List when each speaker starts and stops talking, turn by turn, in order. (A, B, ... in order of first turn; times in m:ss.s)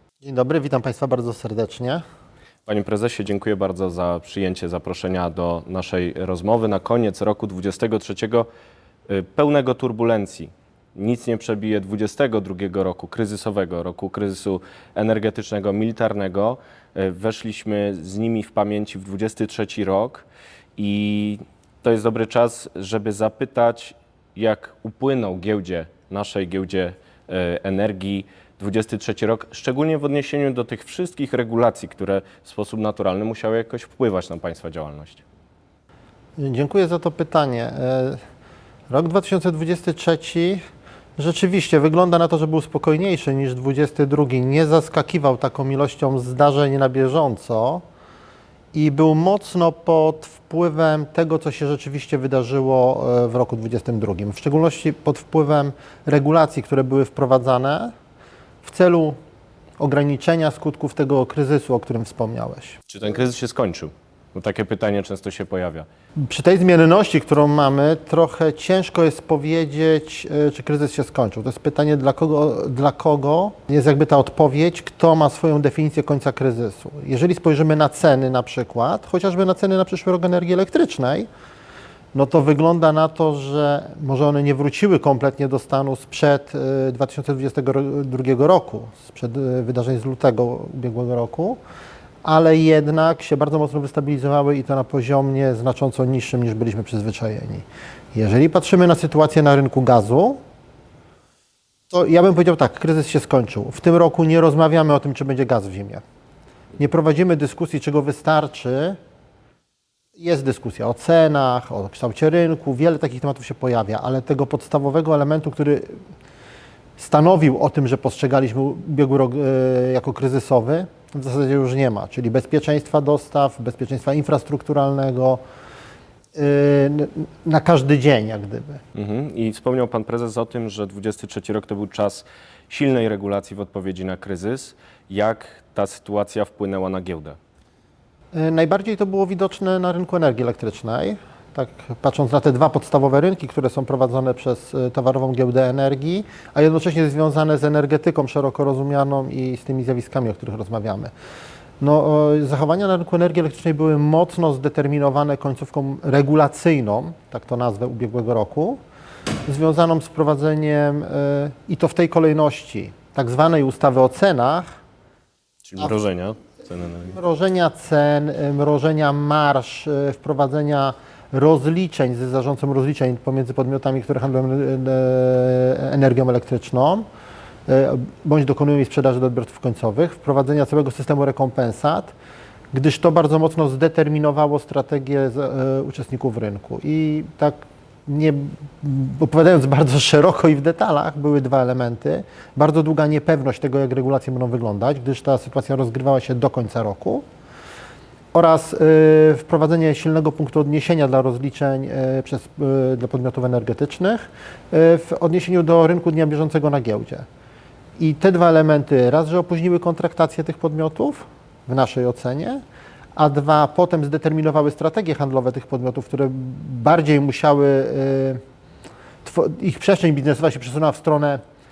0:00.2-0:02.0 A
0:02.7-0:08.5 B
0:09.1-0:20.3 B
0:20.8-0:35.2 B
0:36.4-0:38.2 A
0:38.9-0:40.6 A
0:41.2-0:47.8 A
0:48.7-0:57.9 A
0:58.6-0:59.2 A
0:59.8-1:02.8 A
1:02.9-1:05.9 B
1:06.2-1:21.3 A
1:22.1-1:31.6 A
1:32.2-1:40.4 A
1:41.9-1:46.0 A
1:46.8-1:49.0 A
1:50.2-1:56.0 A
1:57.0-2:05.4 A
2:06.4-2:08.8 A
2:08.9-2:17.4 B
2:18.3-2:31.1 A
2:31.8-2:38.8 A
2:39.5-2:44.8 A
2:45.6-2:47.2 B
2:47.1-2:57.1 A
2:57.7-3:02.1 A
3:02.7-3:17.2 A
3:18.3-3:27.3 A
3:28.0-3:32.6 A
3:33.2-3:38.4 A
3:39.2-3:41.4 A